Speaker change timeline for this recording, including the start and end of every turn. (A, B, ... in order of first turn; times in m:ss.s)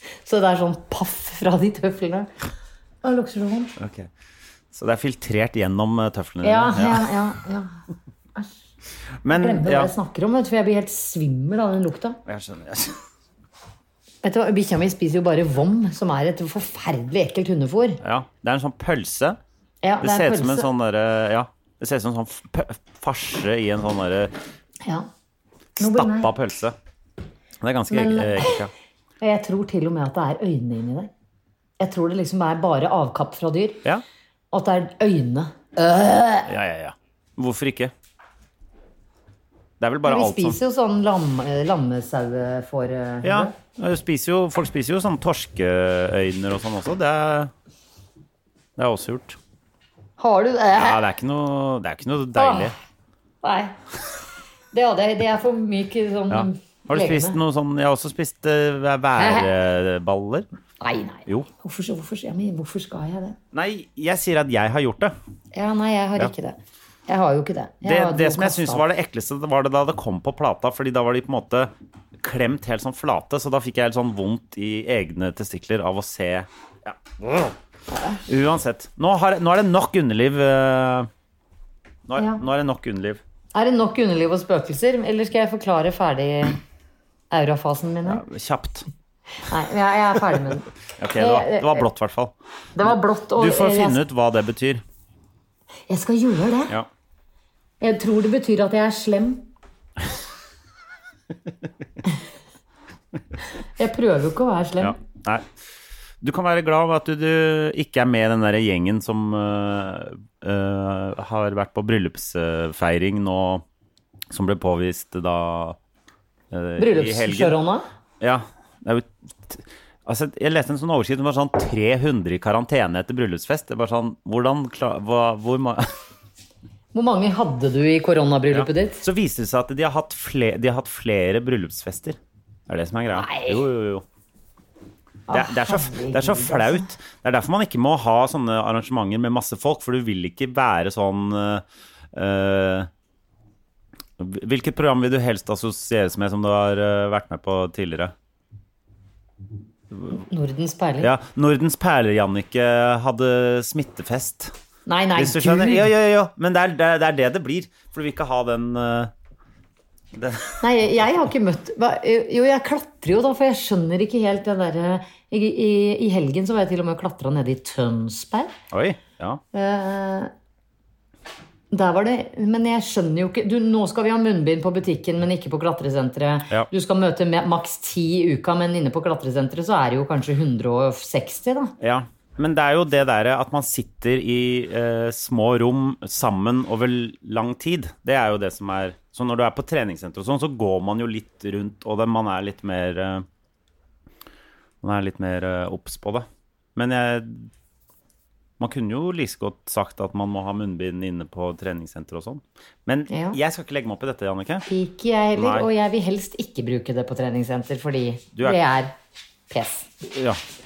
0:00.2-0:02.3 A
0:03.0-0:03.7 A
0:03.8-0:04.1 B
0:04.7-0:07.1 B
0:06.4-0:07.7 A
0:09.2-0:09.9 B
0:09.3-0:12.2 A
0:12.2-0:13.0 B
0:14.2-0:18.0 A
0:18.0-0:19.4 B
0:19.8-0:20.7 A
0:20.0-0:24.3 B
0:25.8-0:26.3 A
0:25.8-0:26.7 B
0:27.6-0:28.7 B
0:27.9-0:28.6 A
0:29.2-0:31.1 A
0:31.8-0:33.8 A
0:34.5-0:36.5 A
0:36.5-0:37.9 B
0:39.8-0:40.6 B
0:40.0-0:43.5 A
0:43.2-0:47.5 B
0:48.8-0:49.4 B
0:50.2-0:51.0 A
0:50.8-0:52.7 B
0:52.4-0:52.7 A
0:53.4-0:53.7 A
0:54.7-0:57.4 A
0:56.3-1:00.4 B
0:59.2-0:59.5 A
1:00.8-1:03.4 A
1:03.5-1:05.1 B
1:05.5-1:08.8 A
1:07.8-1:17.5 B
1:17.9-1:18.2 A
1:18.2-1:21.1 B
1:22.1-1:23.2 B
1:22.2-1:22.4 A
1:23.5-1:26.6 A
1:27.3-1:28.2 A
1:28.0-1:28.9 B
1:29.5-1:31.9 A
1:31.0-1:32.3 B
1:32.8-1:34.0 A
1:32.9-1:34.8 B
1:35.9-1:36.7 A
1:37.8-1:39.4 A
1:43.8-1:45.0 A
1:44.8-1:45.5 B
1:46.2-1:53.6 B
1:54.3-1:55.8 B
1:56.5-1:57.6 B
1:56.8-1:57.8 A
1:58.2-2:05.9 B
2:06.9-2:09.0 A
2:08.5-2:14.0 B
2:13.1-2:13.6 A
2:15.3-2:16.9 A
2:15.3-2:21.6 B
2:22.1-2:22.9 B
2:24.2-2:28.1 B
2:30.1-2:31.1 A
2:31.0-2:34.5 B
2:34.9-2:35.9 A
2:35.2-2:39.1 B
2:40.1-2:40.6 B
2:40.6-2:48.5 A
2:48.7-2:49.4 B
2:49.5-2:50.3 A
2:51.7-3:01.7 A
3:01.8-3:13.2 B
3:14.8-3:17.5 B
3:18.6-3:24.6 B
3:23.1-3:23.4 A
3:24.6-3:28.9 A
3:25.4-3:25.7 B
3:29.5-3:29.9 A
3:30.1-3:30.4 B